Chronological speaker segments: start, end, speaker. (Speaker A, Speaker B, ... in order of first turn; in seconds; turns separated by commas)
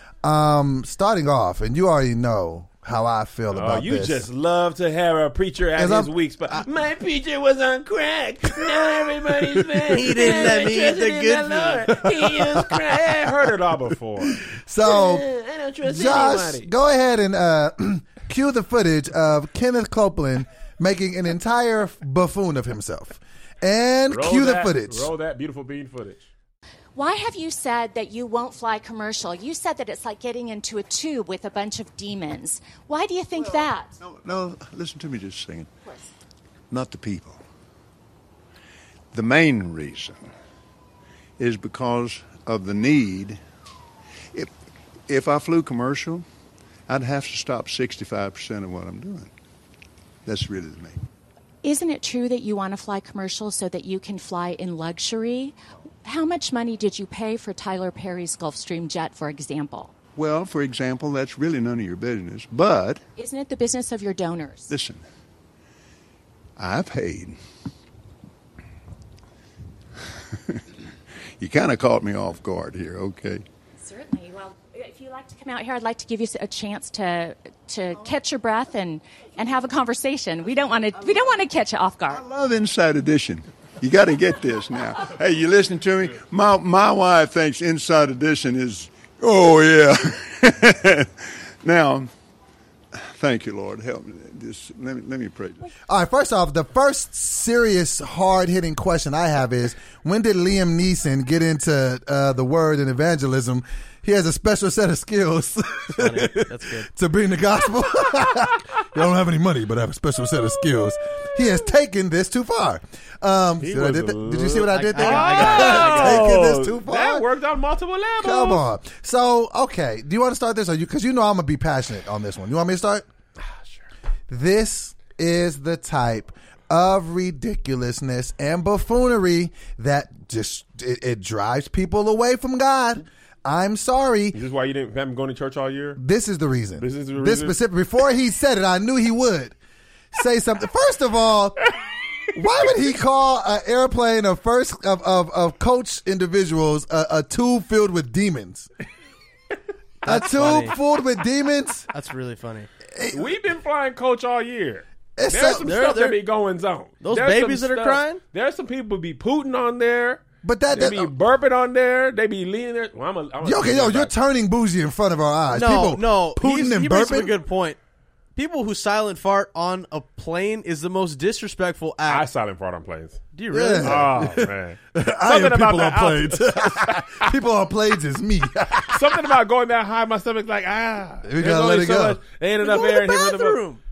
Speaker A: 0.2-4.3, Speaker B: 3.5-16.7, Speaker A: 5.8-6.1, Speaker C: 9.9-11.9, Speaker A: 11.9-13.3, Speaker A: 14.4-15.2, Speaker A: 15.8-25.1, Speaker B: 24.1-26.2, Speaker D: 26.9-34.0, Speaker E: 34.0-35.7, Speaker E: 36.7-37.4, Speaker E: 39.1-40.3, Speaker E: 41.4-43.4, Speaker E: 45.1-46.2, Speaker E: 46.9-49.3, Speaker E: 50.2-51.0, Speaker D: 51.6-59.9, Speaker E: 60.1-63.0, Speaker D: 63.1-64.7, Speaker E: 64.7-65.0, Speaker E: 66.6-67.4, Speaker E: 71.4-73.4, Speaker D: 73.8-82.2, Speaker E: 82.1-92.1, Speaker E: 92.9-95.7, Speaker A: 95.9-117.2, Speaker C: 105.9-106.9, Speaker B: 111.3-111.7, Speaker B: 113.6-118.6, Speaker C: 114.7-116.3, Speaker A: 118.2-123.0, Speaker B: 123.4-123.9, Speaker A: 124.3-134.4, Speaker B: 134.3-136.0, Speaker A: 136.0-139.6, Speaker B: 136.8-137.6, Speaker A: 140.1-141.7, Speaker A: 142.3-148.7, Speaker C: 150.0-150.8, Speaker A: 150.0-151.9, Speaker C: 151.9-152.7, Speaker A: 152.9-153.3, Speaker B: 153.1-164.1, Speaker A: 155.2-155.7, Speaker C: 155.6-156.2, Speaker C: 157.0-158.2, Speaker A: 160.4-161.1, Speaker A: 163.4-167.3, Speaker C: 165.5-167.8, Speaker C: 168.3-172.3, Speaker B: 172.1-173.2, Speaker C: 173.3-174.1, Speaker A: 173.5-179.3, Speaker B: 173.8-177.3, Speaker B: 178.8-183.6, Speaker A: 181.2-182.2, Speaker C: 182.6-183.8